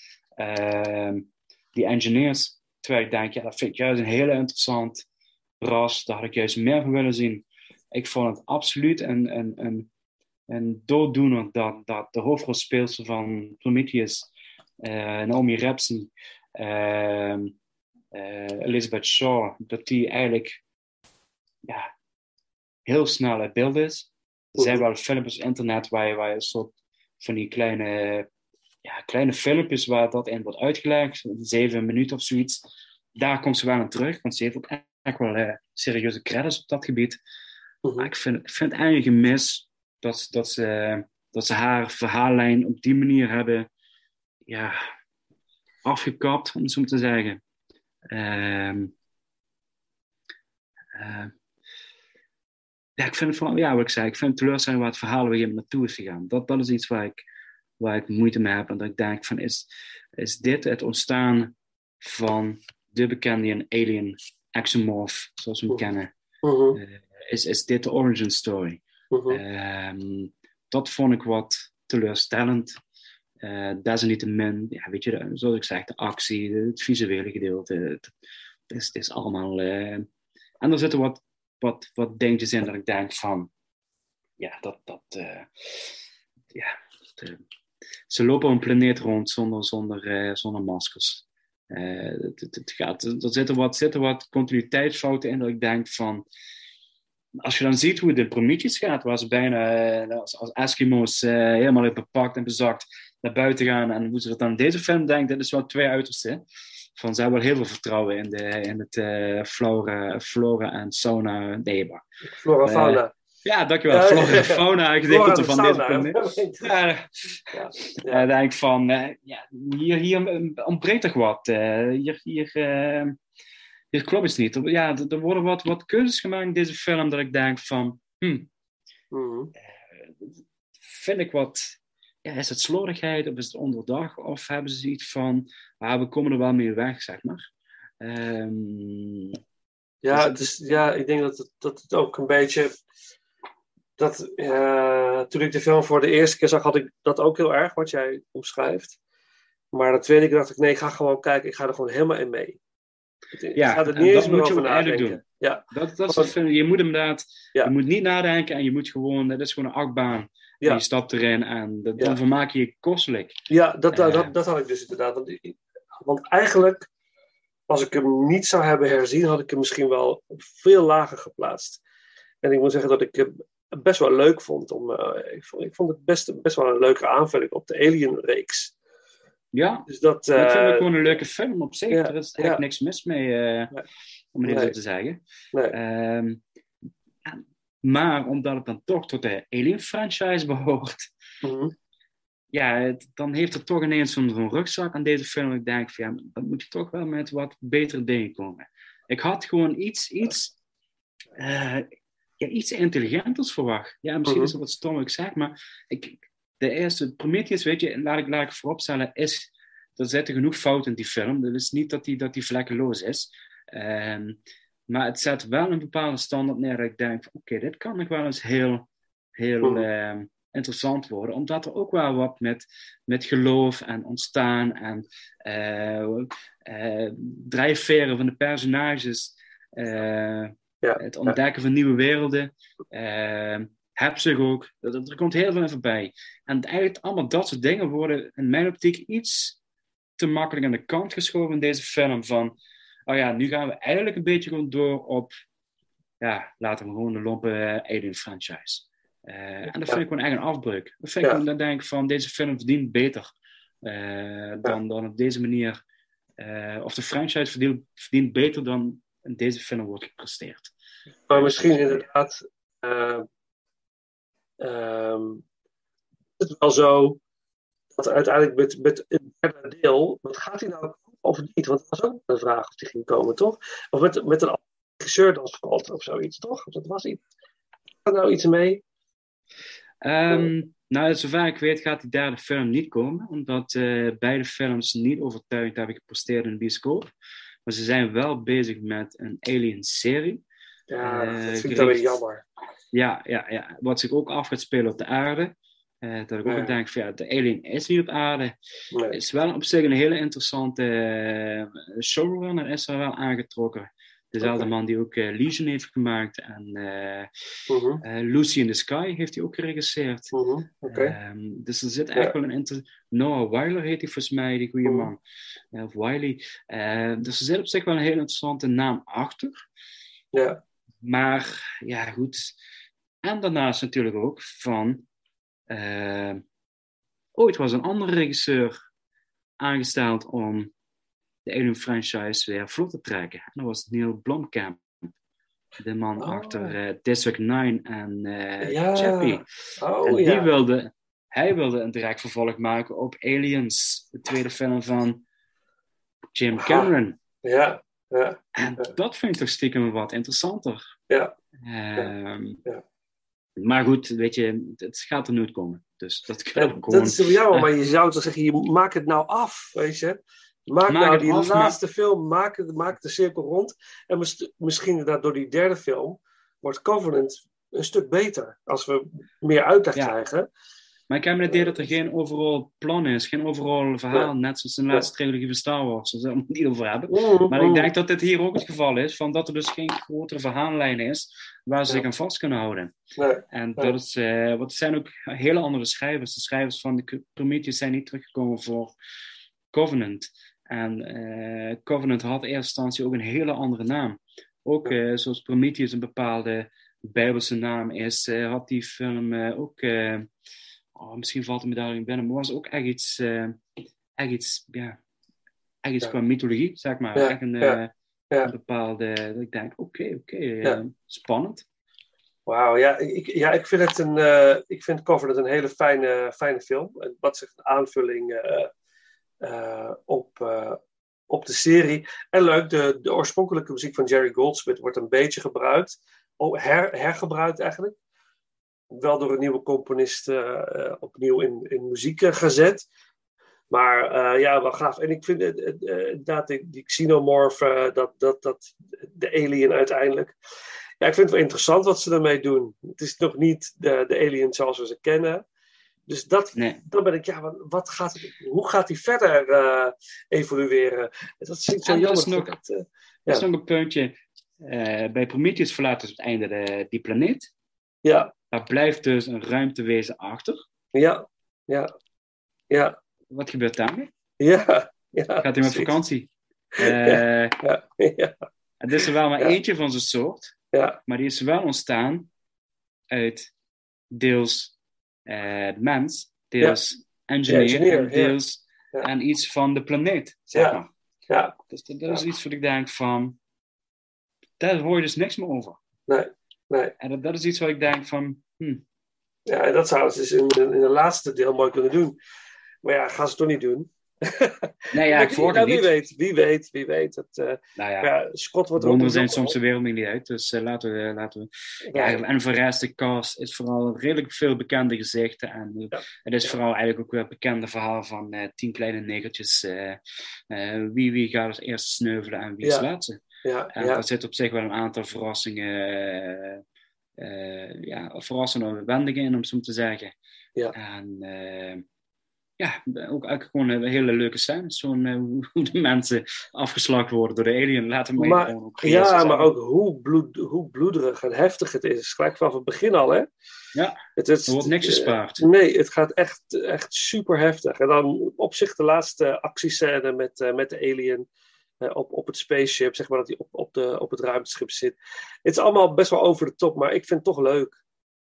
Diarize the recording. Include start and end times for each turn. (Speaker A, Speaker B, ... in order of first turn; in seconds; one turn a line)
Speaker A: 0.4-5.0
Speaker A: 5.6-9.9
Speaker A: 10.5-14.3
Speaker A: 14.8-17.5
Speaker A: 18.1-20.6
Speaker A: 22.9-28.3
Speaker A: 28.8-32.6
Speaker A: 33.1-37.2
Speaker B: 37.8-38.1
Speaker A: 38.0-43.7
Speaker A: 44.5-44.8
Speaker A: 45.8-47.4
Speaker A: 48.1-48.9
Speaker A: 51.0-51.3
Speaker A: 53.0-57.2
Speaker A: 57.8-59.7
Speaker A: 60.2-66.1
Speaker B: 66.4-66.8
Speaker A: 66.7-72.8
Speaker B: 69.1-69.4
Speaker A: 73.4-78.1
Speaker A: 78.7-80.1
Speaker A: 80.6-83.5
Speaker A: 84.4-85.9
Speaker A: 86.5-87.4
Speaker A: 88.1-96.2
Speaker A: 97.4-106.4
Speaker A: 107.0-112.0
Speaker B: 112.3-113.1
Speaker A: 112.6-117.4
Speaker B: 113.9-116.7
Speaker B: 117.5-118.2
Speaker A: 118.1-123.2
Speaker A: 123.9-128.5
Speaker B: 129.1-129.5
Speaker A: 129.9-137.4
Speaker A: 138.0-139.4
Speaker B: 140.0-142.7
Speaker A: 140.1-140.5
Speaker B: 144.0-149.0
Speaker B: 149.7-152.6
Speaker B: 153.3-156.3
Speaker A: 153.5-155.2
Speaker A: 155.7-163.3
Speaker B: 163.5-166.9
Speaker A: 163.9-164.3
Speaker B: 167.7-171.8
Speaker B: 172.4-178.7
Speaker A: 179.5-183.7
Speaker B: 179.9-181.2
Speaker B: 181.9-182.6
Speaker A: 184.3-185.2
Speaker B: 184.4-184.7
Speaker A: 185.7-186.4
Speaker A: 187.2-191.1
Speaker B: 191.4-191.7
Speaker A: 192.5-200.5
Speaker A: 201.4-201.9
Speaker A: 202.4-218.9
Speaker B: 204.3-204.5
Speaker A: 219.4-239.6
Speaker B: 230.8-231.3
Speaker A: 240.2-242.5
Speaker A: 243.1-245.3
Speaker A: 246.2-253.3
Speaker A: 253.8-255.8
Speaker A: 256.4-260.7
Speaker B: 261.3-263.2
Speaker A: 261.3-262.0
Speaker B: 264.6-265.4
Speaker B: 266.4-267.2
Speaker B: 267.9-277.2
Speaker B: 278.1-278.8
Speaker A: 280.0-287.1
Speaker A: 287.7-290.4
Speaker B: 290.9-292.4
Speaker A: 291.0-292.0
Speaker A: 292.9-298.5
Speaker B: 296.4-296.7
Speaker A: 299.1-307.3
Speaker B: 304.4-304.7
Speaker B: 307.7-308.0
Speaker A: 308.0-310.3
Speaker B: 310.3-311.1
Speaker A: 310.9-315.2
Speaker A: 315.7-319.6
Speaker B: 320.3-320.6
Speaker A: 321.0-322.5
Speaker A: 323.2-325.0
Speaker A: 325.7-326.4
Speaker A: 327.4-328.8
Speaker A: 329.6-330.7
Speaker A: 331.4-335.1
Speaker A: 335.8-339.5
Speaker B: 336.2-336.7
Speaker B: 338.6-340.5
Speaker A: 340.0-345.2
Speaker A: 346.4-347.2
Speaker B: 346.5-346.9
Speaker B: 347.4-348.9
Speaker A: 348.6-350.8
Speaker A: 351.6-352.6
Speaker A: 353.6-357.7
Speaker B: 356.6-370.5
Speaker A: 360.9-361.8
Speaker A: 371.1-382.9
Speaker B: 371.5-371.9
Speaker B: 377.1-377.9
Speaker B: 383.2-383.9
Speaker A: 383.5-388.9
Speaker A: 389.7-400.3
Speaker A: 400.9-403.6
Speaker A: 404.2-405.0
Speaker A: 405.8-407.9
Speaker B: 407.1-407.8
Speaker A: 408.4-411.6
Speaker B: 412.4-418.7
Speaker B: 419.4-427.9
Speaker B: 428.9-432.8
Speaker B: 433.7-440.3
Speaker B: 441.0-445.4
Speaker B: 446.1-453.4
Speaker A: 446.6-446.8
Speaker A: 451.8-452.5
Speaker A: 453.3-457.5
Speaker B: 458.0-458.3
Speaker A: 458.5-460.6
Speaker B: 460.9-461.9
Speaker B: 462.7-462.9
Speaker A: 463.3-464.1
Speaker B: 464.4-465.9
Speaker A: 465.4-467.6
Speaker B: 466.8-468.3
Speaker A: 468.8-470.5
Speaker B: 470.7-471.0
Speaker A: 471.1-472.3
Speaker A: 473.1-473.5
Speaker A: 474.1-474.7
Speaker A: 475.2-480.9
Speaker B: 477.5-478.4
Speaker B: 480.5-481.5
Speaker A: 481.7-483.4
Speaker A: 484.6-485.8
Speaker B: 486.1-486.9
Speaker A: 487.0-488.8
Speaker B: 489.5-492.2
Speaker B: 492.8-499.5
Speaker A: 494.9-495.9
Speaker A: 497.8-498.1
Speaker A: 498.8-510.0
Speaker B: 501.9-502.2
Speaker B: 505.9-506.5
Speaker A: 510.5-513.2
Speaker B: 512.6-512.9
Speaker B: 513.4-514.0
Speaker A: 513.7-516.6
Speaker A: 517.2-520.1
Speaker A: 520.7-521.8
Speaker A: 522.6-529.5
Speaker B: 528.2-533.3
Speaker A: 533.7-535.4
Speaker B: 534.2-541.2
Speaker B: 541.8-547.8